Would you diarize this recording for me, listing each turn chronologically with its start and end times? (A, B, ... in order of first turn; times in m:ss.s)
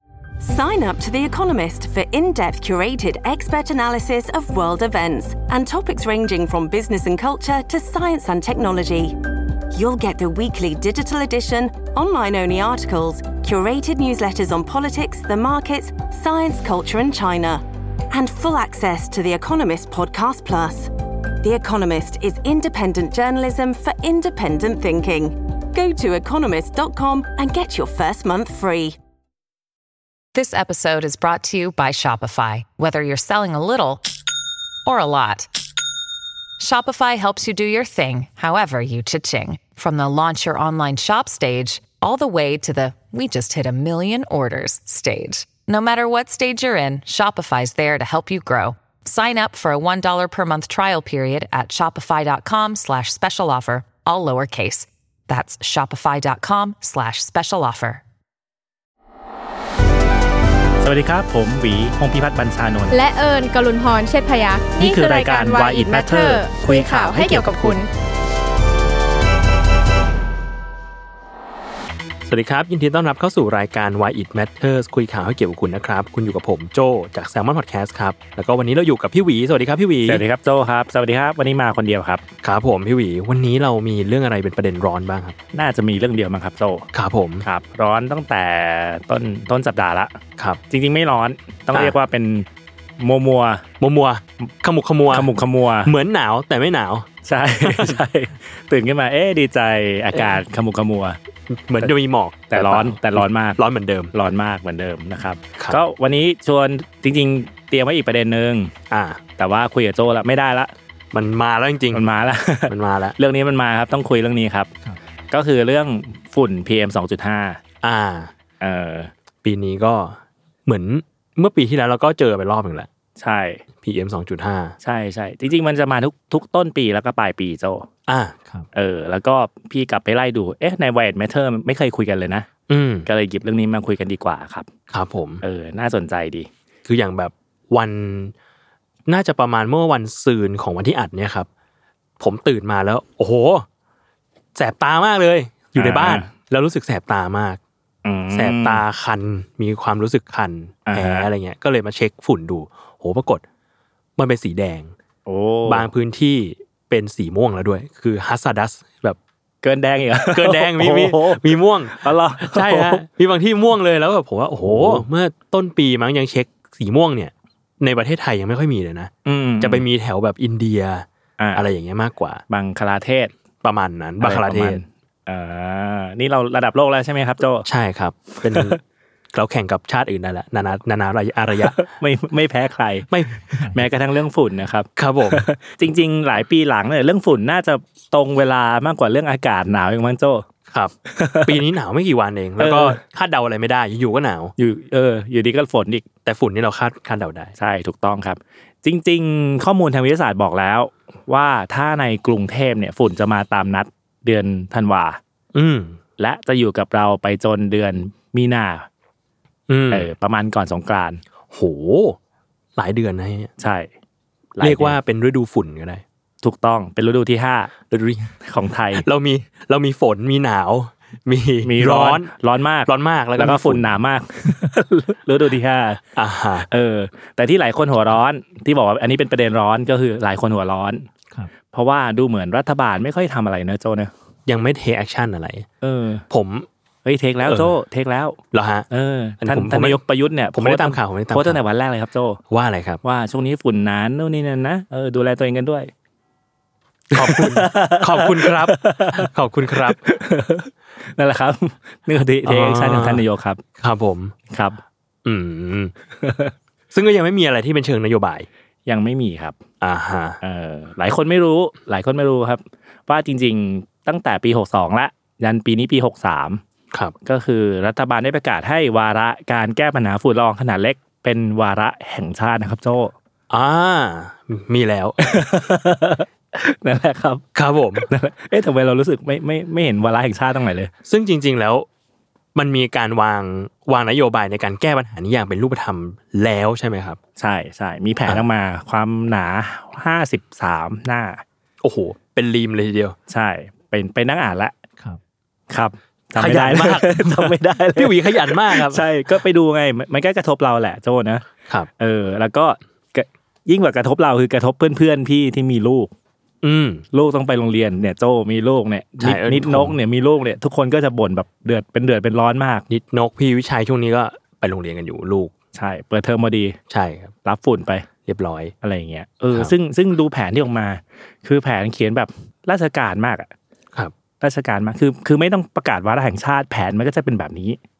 0:00.4-0:29.0 A
0:30.3-0:34.0 B
0:34.8-0:35.5 B
0:36.6-0:58.0 B
1:00.8-1:03.0 C
1:02.9-1:07.9 D
1:04.8-1:07.8 C
1:12.3-1:20.2 E
1:20.1-1:22.2 C
1:22.4-1:25.4 E
1:25.5-1:26.9 C
1:26.9-1:27.4 E
1:27.4-1:30.2 C
1:30.7-1:32.5 C
1:33.0-1:33.6 C
1:33.8-1:35.3 E
1:35.1-1:35.9 C
1:35.8-1:37.1 E
1:37.2-1:41.2 C
1:37.6-1:38.0 E
1:41.5-1:44.1 E
1:42.5-1:43.6 C
1:44.1-1:48.7 C
1:48.9-1:49.2 E
1:49.4-1:50.7 C
1:51.1-1:52.0 E
1:51.9-1:54.7 C
1:52.7-1:53.2 E
1:55.3-1:57.6 C
1:57.8-1:58.3 E
1:58.6-1:59.1 C
1:59.4-2:02.9 E
2:03.2-2:03.6 C
2:03.8-2:04.8 E
2:04.8-2:07.9 C
2:08.1-2:08.5 E
2:08.7-2:12.5 C
2:12.7-2:13.1 E
2:13.1-2:14.7 C
2:14.9-2:15.4 E
2:15.4-2:16.5 C
2:16.8-2:18.3 E
2:19.1-2:21.5 E
2:22.2-2:23.7 E
2:24.6-2:27.6 E
2:25.8-2:26.3 C
2:28.0-2:28.8 C
2:28.3-2:33.4 E
2:30.8-2:31.3 C
2:34.2-2:34.9 E
2:35.2-2:35.9 C
2:35.7-2:39.2 E
2:39.6-2:43.0 C
2:40.3-2:52.4 E
2:44.7-2:45.1 C
2:49.2-2:49.8 C
2:51.4-2:51.6 C
2:52.5-2:53.3 C
2:53.6-2:54.8 E
2:54.2-2:57.7 C
2:57.7-2:58.8 E
2:58.4-2:58.8 C
2:59.3-3:01.8 E
3:01.7-3:10.5 C
3:03.1-3:03.6 E
3:05.0-3:05.5 E
3:10.7-3:14.5 E
3:11.1-3:11.6 C
3:12.6-3:13.0 C
3:14.6-3:16.0 C
3:16.2-3:17.5 E
3:17.6-3:25.2 C
3:25.5-3:26.0 E
3:26.2-3:28.9 C
3:29.7-3:30.1 E
3:29.9-3:31.2 C
3:31.5-3:32.2 E
3:32.8-3:33.5 E
3:33.6-3:33.9 C
3:34.6-3:35.0 C
3:34.6-3:36.0 E
3:36.4-3:37.7 C
3:37.9-3:38.3 E
3:38.4-3:39.0 C
3:38.9-3:42.3 E
3:41.6-3:46.0 C
3:42.8-3:43.9 E
3:46.2-3:46.7 E
3:46.7-3:51.1 C
3:51.7-3:54.1 C
3:54.5-3:55.7 E
3:55.8-3:56.2 C
3:56.3-3:56.7 E
3:57.0-3:58.4 C
3:57.4-3:57.7 E
3:58.5-3:58.9 E
3:58.9-4:02.4 C
3:59.4-4:00.0 E
4:00.5-4:01.6 E
4:02.5-4:03.0 E
4:03.0-4:05.9 C
4:07.1-4:10.0 E
4:07.1-4:13.6 C
4:12.4-4:13.2 E
4:13.8-4:14.3 E
4:14.5-4:14.8 C
4:15.2-4:15.9 E
4:16.2-4:16.5 C
4:16.9-4:18.5 E
4:18.9-4:19.6 C
4:19.8-4:20.4 E
4:20.4-4:26.6 C
4:27.2-4:33.1 C
4:33.5-4:35.3 E
4:35.2-4:37.4 C
4:37.5-4:38.1 E
4:38.0-4:40.9 C
4:41.0-4:41.9 E
4:42.5-4:47.2 E
4:47.4-4:51.4 C
4:51.8-4:53.2 E
4:53.3-4:54.8 C
4:55.7-5:01.4 C
4:56.4-4:59.0 E
5:02.0-5:06.1 C
5:06.6-5:07.0 E
5:07.1-5:12.8 C
5:09.2-5:10.0 E
5:12.9-5:15.5 E
5:15.7-5:16.8 C
5:16.9-5:17.3 E
5:17.4-5:18.0 C
5:18.2-5:18.7 E
5:18.8-5:23.5 C
5:24.4-5:27.8 C